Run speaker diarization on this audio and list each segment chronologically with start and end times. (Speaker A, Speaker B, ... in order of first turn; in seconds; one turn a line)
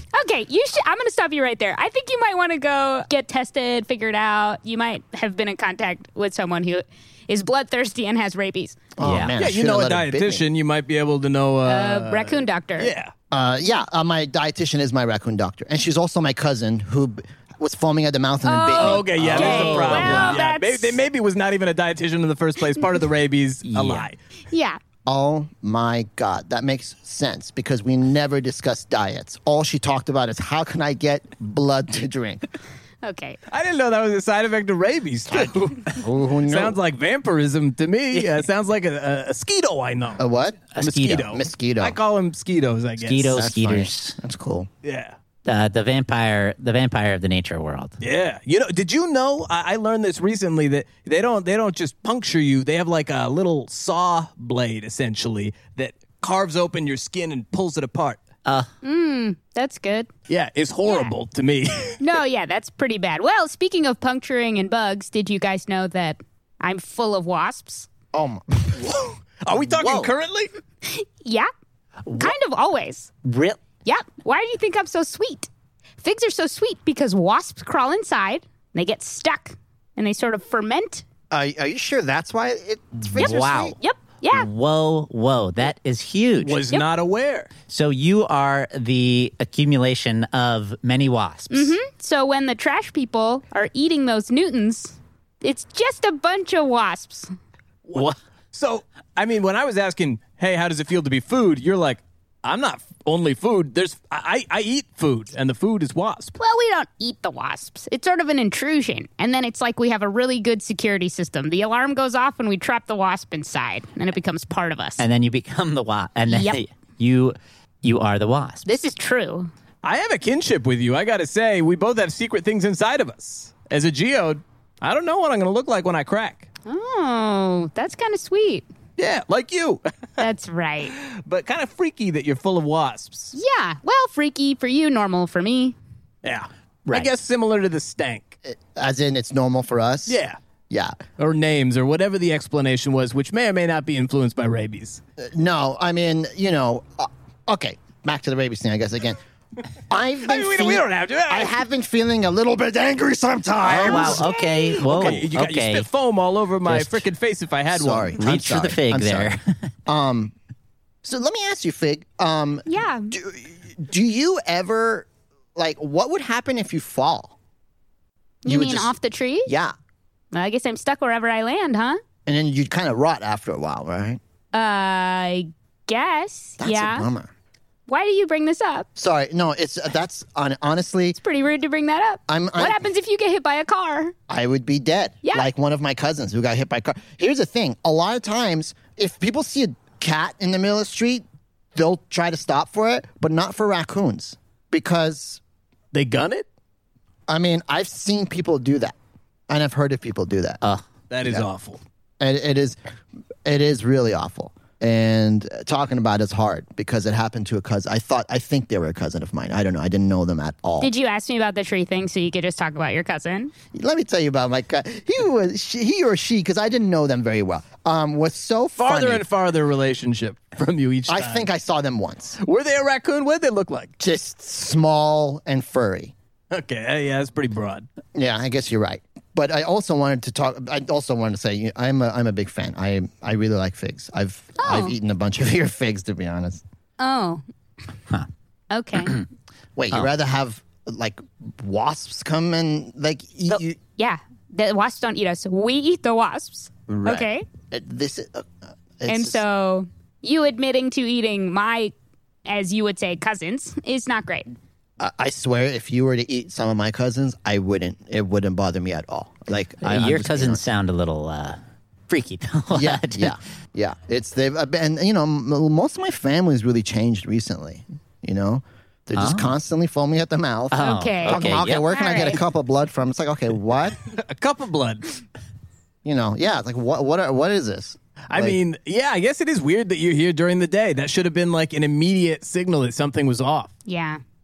Speaker A: 0.1-8.8
Speaker B: 9.0-10.4
Speaker C: 9.0-9.3
Speaker D: 9.4-13.1
Speaker A: 11.6-12.9
Speaker B: 13.3-20.4
Speaker A: 18.4-21.0
Speaker D: 18.8-24.2
Speaker C: 19.4-20.4
Speaker C: 23.6-24.0
Speaker A: 24.5-24.8
Speaker B: 25.1-32.4
Speaker A: 33.0-33.4
Speaker D: 33.5-40.2
Speaker B: 35.3-36.8
Speaker B: 40.2-42.0
Speaker C: 40.7-41.4
Speaker D: 40.8-43.3
Speaker C: 43.0-44.1
Speaker B: 43.3-44.7
Speaker D: 44.8-45.1
Speaker C: 45.5-48.0
Speaker D: 48.0-58.2
Speaker A: 58.8-60.1
Speaker D: 60.3-62.0
Speaker A: 60.9-61.1
Speaker A: 62.0-67.9
Speaker B: 68.1-68.9
Speaker D: 68.8-70.5
Speaker C: 69.8-70.1
Speaker A: 70.8-71.5
Speaker C: 72.0-72.3
Speaker A: 72.2-73.1
Speaker C: 73.2-73.6
Speaker A: 73.8-75.5
Speaker A: 76.0-81.0
Speaker B: 81.3-83.8
Speaker C: 83.1-83.8
Speaker A: 83.2-84.5
Speaker C: 84.3-86.6
Speaker D: 86.4-87.5
Speaker C: 87.7-91.8
Speaker A: 91.5-97.3
Speaker D: 97.9-106.3
Speaker A: 106.4-115.0
Speaker C: 115.0-118.7
Speaker A: 116.3-116.6
Speaker A: 118.7-119.5
Speaker D: 119.8-126.5
Speaker A: 126.7-128.7
Speaker D: 129.0-130.2
Speaker A: 130.2-130.9
Speaker D: 130.9-133.3
Speaker A: 133.3-135.8
Speaker D: 136.2-138.3
Speaker B: 138.4-140.2
Speaker D: 140.1-140.4
Speaker B: 140.7-140.9
Speaker D: 141.2-145.0
Speaker B: 145.2-149.2
Speaker B: 149.9-154.2
Speaker D: 150.2-151.5
Speaker D: 153.7-154.2
Speaker C: 153.7-155.8
Speaker A: 154.1-154.8
Speaker D: 154.8-158.1
Speaker C: 156.7-157.0
Speaker B: 157.7-159.3
Speaker C: 158.2-159.5
Speaker B: 159.8-160.3
Speaker B: 161.0-167.3
Speaker A: 162.7-163.1
Speaker A: 168.4-169.5
Speaker B: 168.4-168.9
Speaker B: 169.4-169.7
Speaker A: 170.3-172.0
Speaker B: 172.2-174.2
Speaker A: 174.5-177.1
Speaker B: 176.6-177.3
Speaker A: 177.9-178.9
Speaker B: 178.9-181.2
Speaker A: 181.1-184.1
Speaker B: 182.3-182.8
Speaker B: 184.3-195.4
Speaker D: 195.9-196.4
Speaker B: 197.3-198.9
Speaker B: 199.5-200.6
Speaker D: 201.1-201.8
Speaker B: 202.2-202.8
Speaker B: 203.4-210.9
Speaker A: 210.8-213.5
Speaker B: 213.7-219.2
Speaker D: 218.8-221.5
Speaker B: 221.1-222.4
Speaker D: 222.4-223.9
Speaker B: 224.0-226.1
Speaker D: 226.5-227.9
Speaker B: 228.1-236.6
Speaker A: 234.6-234.9
Speaker A: 237.0-237.4
Speaker A: 238.7-239.2
Speaker C: 239.0-239.2
Speaker B: 239.8-243.8
Speaker A: 243.5-247.4
Speaker B: 246.9-249.4
Speaker A: 249.1-251.9
Speaker A: 252.4-254.5
Speaker B: 255.0-260.6
Speaker C: 259.8-263.4
Speaker B: 262.7-274.0
Speaker C: 269.1-269.5
Speaker C: 270.7-271.9
Speaker A: 270.8-272.4
Speaker D: 274.1-275.1
Speaker B: 276.0-278.6
Speaker D: 278.3-283.7
Speaker A: 283.9-284.2